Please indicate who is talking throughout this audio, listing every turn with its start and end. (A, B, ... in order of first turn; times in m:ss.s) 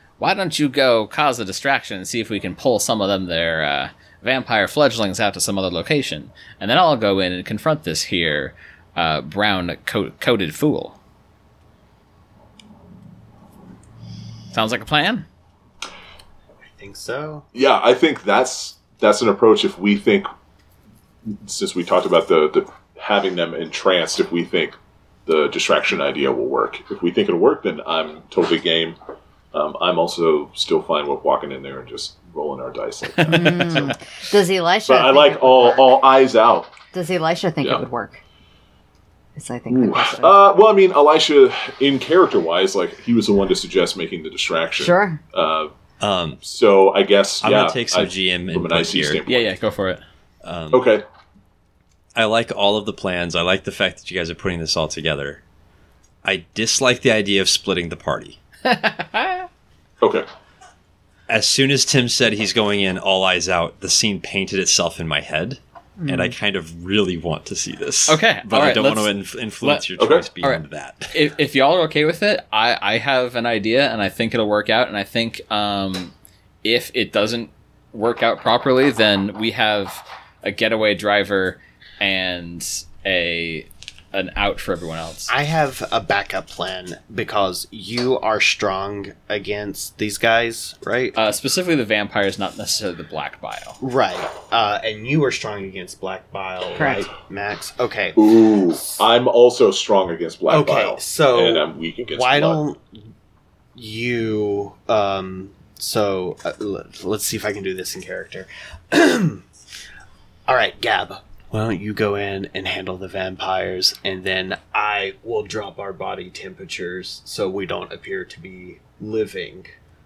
0:00.2-0:11.0 A
0:14.5-0:15.2 A
0:16.7-0:17.4 B
0:17.5-0:20.3 C
0:21.4-0:29.0 C
0:29.5-0:33.9 C
0:33.2-0:33.8 A
0:33.3-0:35.9 D
0:34.8-0:36.7 C
0:36.9-0:38.2 D
0:39.4-0:40.4 D
0:39.7-0:45.7 C
0:44.8-0:45.2 D
0:46.0-0:46.4 E
0:46.4-0:49.5 C
0:47.4-0:49.2 E
0:49.2-0:50.0 A
0:50.4-0:50.9 E
0:50.7-0:51.0 C
0:52.2-0:55.4 E
0:56.2-0:58.4 E
0:58.6-0:59.5 A
1:00.0-1:00.3 C
1:01.3-1:11.2 E
1:06.0-1:06.3 D
1:08.1-1:09.9 A
1:10.0-1:10.3 C
1:10.4-1:16.1 A
1:16.6-1:25.3 A
1:25.3-1:31.2 B
1:31.1-1:33.8 A
1:33.8-1:38.4 B
1:36.8-1:37.1 D
1:38.2-1:42.6 C
1:40.5-1:42.9 B
1:43.7-1:49.4 B
1:50.5-1:59.8 B